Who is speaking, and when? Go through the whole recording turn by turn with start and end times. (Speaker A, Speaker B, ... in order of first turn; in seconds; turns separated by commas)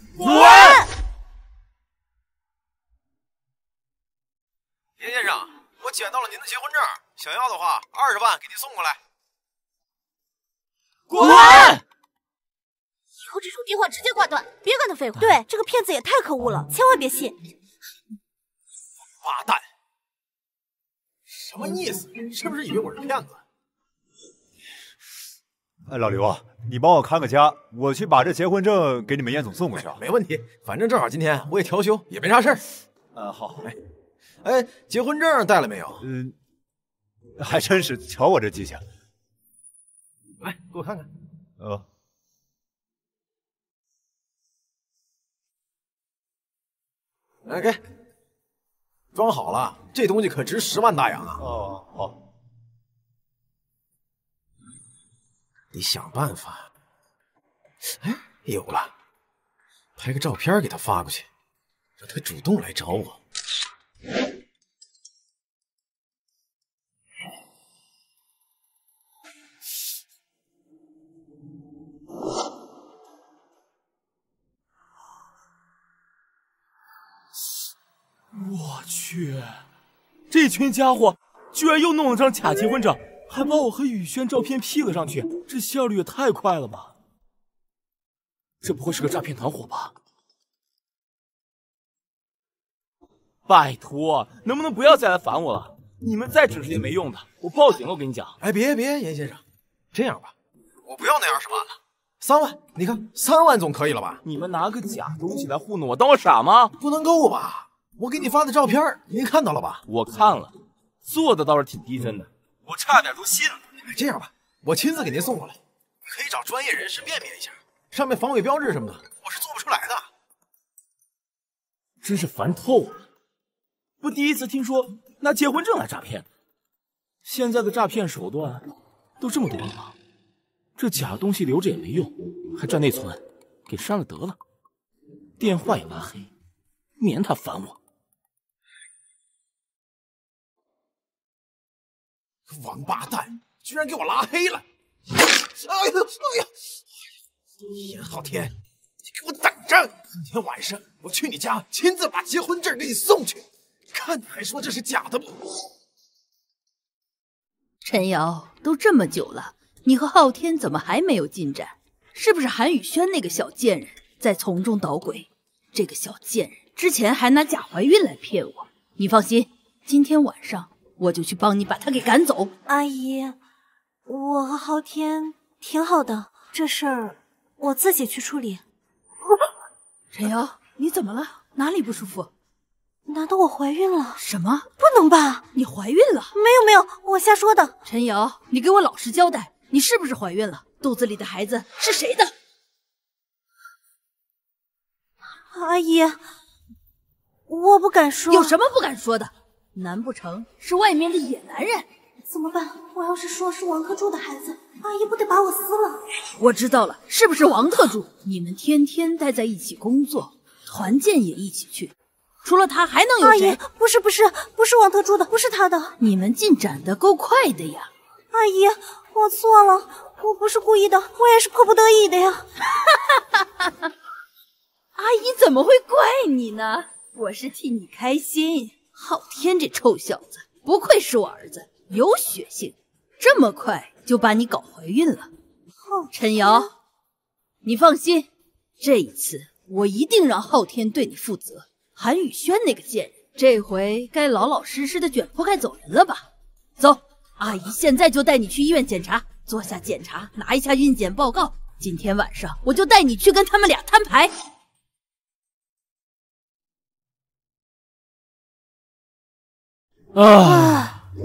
Speaker A: 0.2-0.8, Speaker B: 0.2-0.8, Speaker C: 5.0-9.0, Speaker A: 11.1-11.8, Speaker D: 11.2-11.8, Speaker B: 11.2-11.7, Speaker D: 13.2-15.4, Speaker B: 15.2-17.4, Speaker C: 19.2-19.6, Speaker C: 21.3-23.4, Speaker E: 25.9-30.0, Speaker C: 29.8-32.6, Speaker E: 33.1-33.7, Speaker C: 34.4-36.0, Speaker E: 36.0-36.4, Speaker E: 37.4-38.8, Speaker C: 40.4-41.1, Speaker E: 41.6-41.8, Speaker C: 47.4-47.8, Speaker C: 49.1-51.4, Speaker E: 51.4-52.2, Speaker C: 55.7-56.7, Speaker C: 57.8-58.9, Speaker C: 60.0-61.3, Speaker C: 62.0-63.2, Speaker A: 78.3-79.6, Speaker A: 80.3-86.9, Speaker A: 88.6-89.9, Speaker A: 93.5-98.3, Speaker C: 98.4-99.4, Speaker C: 99.9-100.3, Speaker C: 100.8-104.2, Speaker A: 104.2-106.8, Speaker C: 106.8-109.8, Speaker A: 109.9-110.5, Speaker A: 111.0-113.6, Speaker C: 113.7-120.1, Speaker A: 122.0-123.0, Speaker A: 124.0-126.2, Speaker A: 127.2-128.6, Speaker A: 129.2-129.9, Speaker A: 130.8-134.3, Speaker A: 135.4-136.3, Speaker A: 137.0-137.8, Speaker C: 142.5-144.6, Speaker C: 145.2-146.5, Speaker C: 147.7-148.5, Speaker C: 149.1-155.4, Speaker F: 157.8-172.5, Speaker B: 172.7-173.4, Speaker B: 174.1-178.6, Speaker F: 180.1-182.3, Speaker B: 183.1-184.2, Speaker F: 184.2-184.7, Speaker B: 184.8-185.5, Speaker F: 185.5-186.3, Speaker B: 186.3-187.8, Speaker F: 187.9-192.3, Speaker B: 195.5-196.2, Speaker B: 197.5-198.6, Speaker F: 198.3-201.8, Speaker B: 202.3-206.0, Speaker F: 206.3-211.9, Speaker F: 212.4-213.6, Speaker B: 213.2-215.9, Speaker F: 216.0-217.9, Speaker B: 218.3-222.4, Speaker F: 224.9-235.3, Speaker B: 235.8-236.7, Speaker F: 236.1-236.7, Speaker F: 237.6-238.3, Speaker F: 238.8-246.2, Speaker F: 246.8-254.3, Speaker A: 260.1-260.9, Speaker D: 260.4-260.9